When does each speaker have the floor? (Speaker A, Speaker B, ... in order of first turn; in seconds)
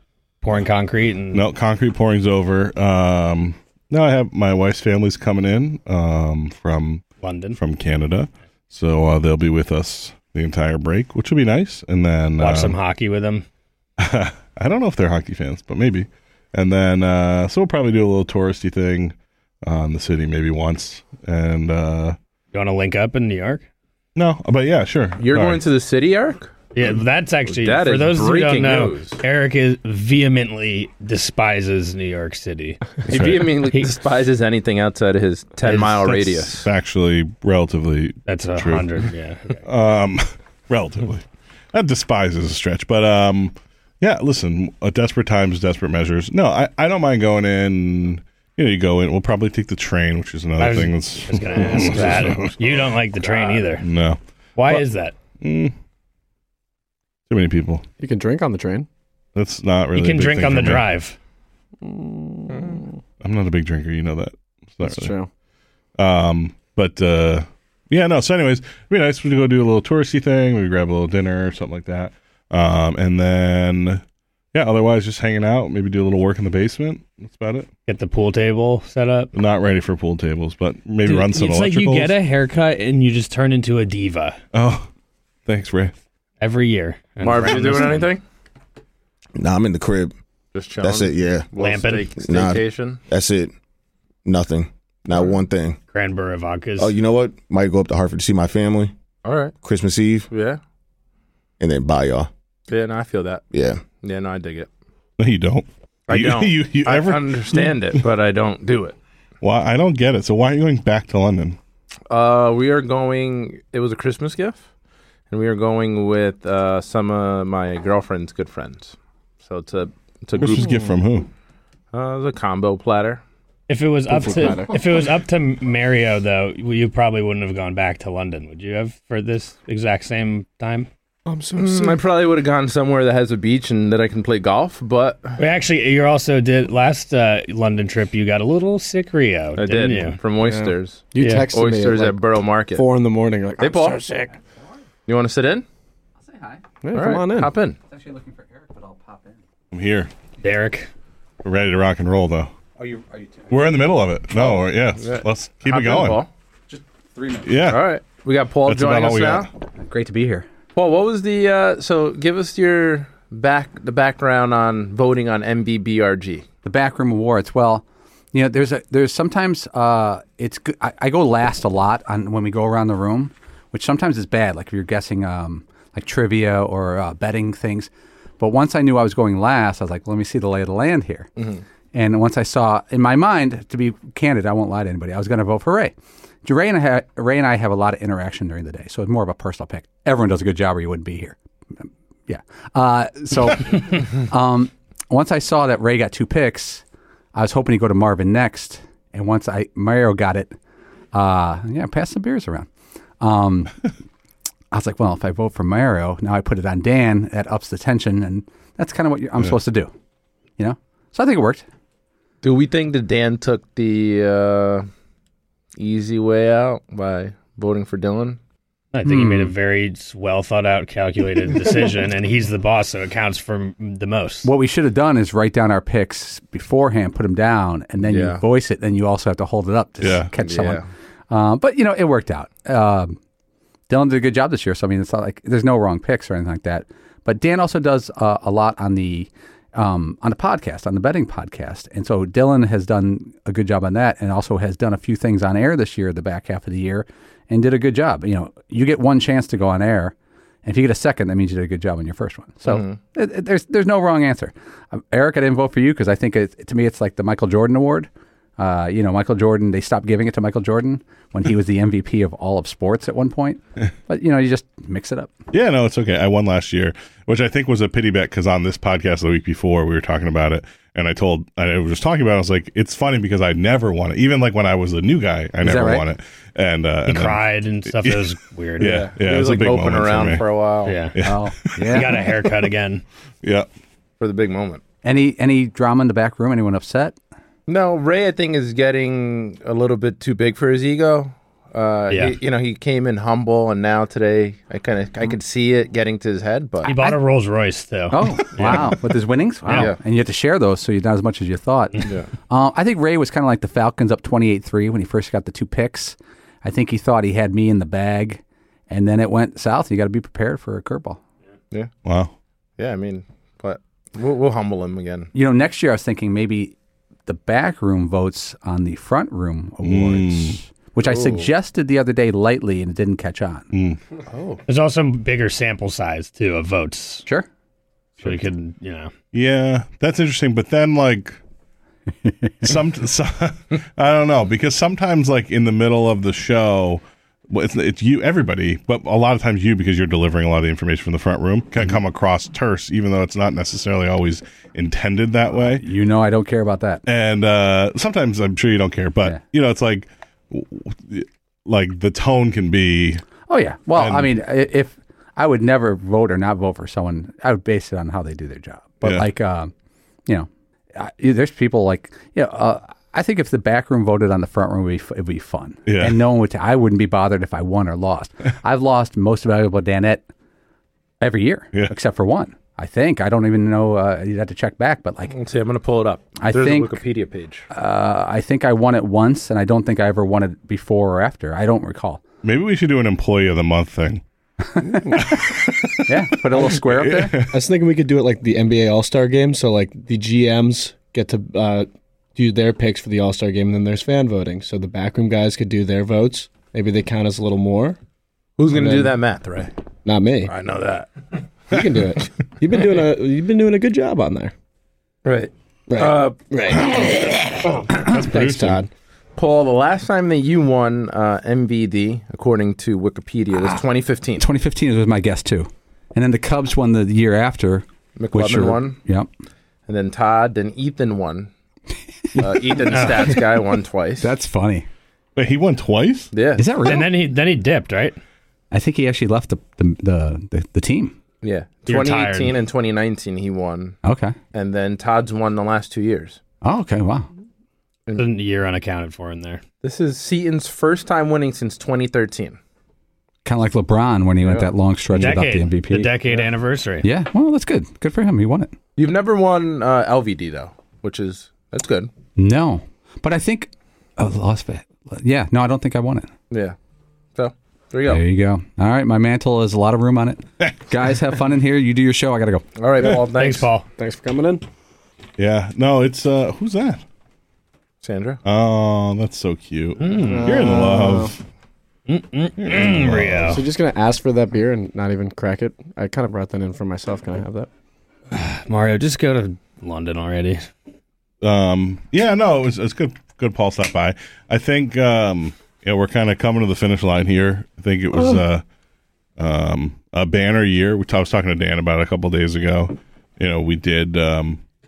Speaker A: 0.4-1.4, 7.2-7.6, 12.4-13.5, 22.5-23.7, 26.7-33.0, 33.6-33.9, 35.6-36.1, 38.2-39.6, 50.6-53.9, 54.6-55.1, 60.0-61.2, 77.9-79.3, 81.0-84.4, 86.4-88.1, 91.6-92.2, 95.9-97.0, 123.7-130.9, 135.4-140.2, 150.4-150.9, 218.9-224.5, 277.1-279.0, 280.9-281.2, 281.9-283.0, 292.1-292.4, 296.9-299.0, 324.7-327.3, 328.2-329.1, 422.9-423.3, 426.8-428.2, 431.9-432.6, 438.2-439.6, 445.1-447.1, 463.4-463.9, 470.0-470.5, 472.1-473.6, 478.3-480.6
Speaker B: 1.3-7.0, 7.6-12.8, 14.0-22.2, 24.2-25.7, 33.1-33.5, 36.0-38.9, 39.6-52.9, 53.8-54.8, 55.4-55.7, 57.3-57.8, 59.4-60.9, 63.2-65.1, 66.0-74.0, 74.5-77.7, 79.3-82.1, 84.5-84.9, 85.5-86.0, 105.2-107.9, 109.4-111.6, 120.3-121.3, 149.7-150.1, 151.4-152.5, 153.5-156.2, 157.5-157.8, 158.7-159.5, 230.0-230.3, 265.5-280.5, 281.1-282.1, 312.1-312.3, 319.8-320.6, 323.7-324.0, 329.3-331.4, 332.6-345.8, 347.1-353.2, 354.0-354.3, 359.0-359.3, 365.9-366.2, 382.4-384.2, 385.2-387.5, 408.0-408.8, 425.4-426.3, 465.4-467.0, 468.4-471.4, 472.6-473.6, 481.4-488.6, 489.4-494.6
Speaker C: 25.2-26.5, 27.5-29.2, 33.1-36.7, 53.3-53.6, 62.5-62.8, 87.2-88.2, 90.5-93.0, 95.1-95.4, 99.2-99.5, 100.3-100.6, 102.7-104.7, 106.1-109.0, 112.1-114.6, 115.3-120.8, 121.9-123.2, 131.6-135.4, 139.6-142.9, 143.6-144.0, 145.1-145.7, 146.9-147.8, 154.3-156.3, 157.7-159.5, 160.8-166.4, 212.4-214.8, 215.8-218.4, 228.1-228.4, 230.4-230.9, 252.7-253.0, 278.8-280.9, 284.2-284.8, 287.7-296.9, 299.7-300.0, 312.8-315.3, 321.1-321.5, 324.3-324.6, 375.3-377.6, 398.6-399.7, 400.4-401.3, 405.2-406.8, 409.4-414.5, 418.2-419.0, 419.9-421.5, 422.4-424.3, 426.3-426.7, 431.4-434.0, 434.5-436.4, 439.8-442.6, 444.4-444.7, 449.0-452.1, 456.5-456.8, 457.4-458.2, 462.8-463.7, 468.0-468.4
Speaker D: 58.0-58.9, 61.8-63.0, 64.8-65.3, 124.1-124.8, 131.3-132.0, 140.4-142.2, 142.7-144.3, 146.8-147.5, 384.9-385.2, 387.5-398.0, 398.7-399.1, 400.1-400.5, 401.7-404.5, 405.9-408.9, 464.0-464.6, 470.2-471.4, 473.4-477.7
Speaker E: 89.4-90.1, 90.8-91.5, 92.3-92.6, 93.1-93.5, 94.2-95.8, 96.8-98.9, 99.6-100.2, 101.6-102.3
Speaker F: 146.2-146.7, 147.9-149.4, 152.8-153.6, 156.7-157.7, 159.8-160.5, 166.6-181.3, 181.9-185.9, 186.4-191.4, 192.3-196.8, 197.3-200.5, 201.1-202.7, 203.2-203.7, 204.7-209.9, 210.6-211.7, 219.0-219.5, 224.4-233.2, 233.9-250.1, 250.7-265.3, 275.6-276.1, 281.2-282.2, 285.0-287.2, 296.9-297.2, 298.1-311.2, 315.3-323.7, 332.2-332.8, 345.6-347.0, 353.5-359.7, 360.3-370.3, 371.2-375.4, 376.4-377.0, 377.7-382.2, 384.7-385.0, 386.1-387.4, 408.2-408.5, 414.4-419.3, 422.3-423.2, 424.2-424.9, 426.6-427.1, 428.7-431.1, 434.0-434.4, 436.6-437.3, 443.4-446.2, 447.0-448.7, 452.4-456.3, 458.1-462.6